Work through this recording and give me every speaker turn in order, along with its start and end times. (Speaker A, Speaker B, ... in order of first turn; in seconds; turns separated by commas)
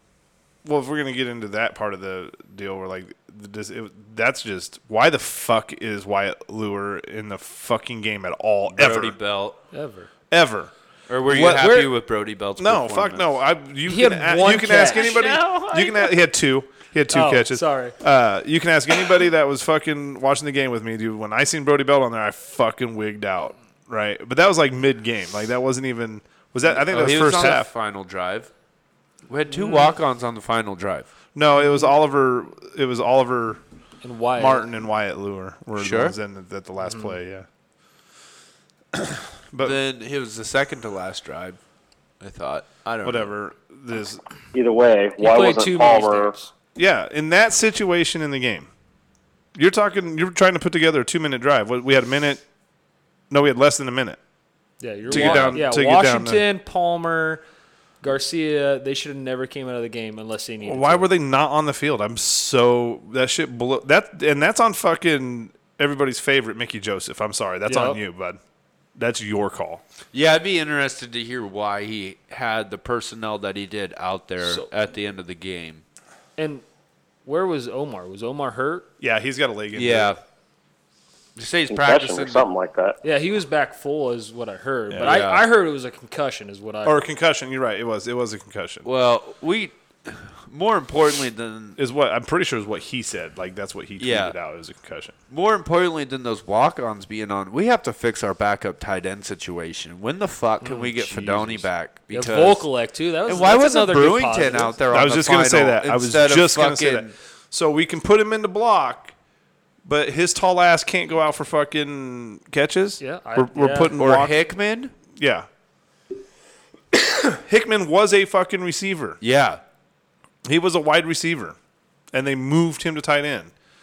Speaker A: 0.6-9.2, Speaker B: 8.7-9.6, Speaker C: 9.7-10.1, Speaker A: 10.3-10.7, Speaker B: 11.1-13.3, Speaker A: 11.3-11.8, Speaker C: 11.4-11.9, Speaker A: 12.6-27.7, Speaker C: 13.9-15.3, Speaker B: 14.9-16.2, Speaker C: 17.1-18.0, Speaker B: 26.7-28.5, Speaker B: 29.3-31.1, Speaker C: 29.5-29.9, Speaker A: 31.4-33.6, Speaker C: 34.0-34.7, Speaker A: 34.4-37.5, Speaker B: 35.8-36.1, Speaker C: 36.9-37.1, Speaker A: 38.9-39.8, Speaker B: 39.6-41.6, Speaker B: 42.2-43.3, Speaker A: 43.0-44.2, Speaker D: 44.5-46.3, Speaker C: 45.2-46.5, Speaker A: 46.8-48.7, Speaker A: 49.5-52.4, Speaker A: 53.3-54.2, Speaker C: 54.8-57.4, Speaker B: 55.1-55.6, Speaker A: 55.1-56.4, Speaker C: 58.0-61.1, Speaker A: 60.6-68.4, Speaker C: 67.7-68.0, Speaker A: 69.0-69.8, Speaker B: 70.1-75.8, Speaker C: 74.4-74.7, Speaker C: 76.4-76.6, Speaker C: 77.2-78.9, Speaker A: 79.0-80.2, Speaker B: 79.7-80.2, Speaker B: 81.4-82.5, Speaker D: 81.7-83.0, Speaker C: 83.0-87.1, Speaker A: 84.9-85.2, Speaker B: 85.0-85.5, Speaker A: 86.8-88.9, Speaker B: 88.8-91.8, Speaker A: 91.8-95.2, Speaker B: 94.0-94.3, Speaker B: 95.3-102.7, Speaker C: 100.6-104.8, Speaker B: 103.3-107.1, Speaker A: 104.9-109.2, Speaker A: 109.8-114.3, Speaker C: 113.0-114.0, Speaker B: 114.0-114.9, Speaker A: 115.1-115.5, Speaker A: 116.9-119.2, Speaker B: 119.2-119.6, Speaker A: 120.5-121.6, Speaker A: 122.1-123.5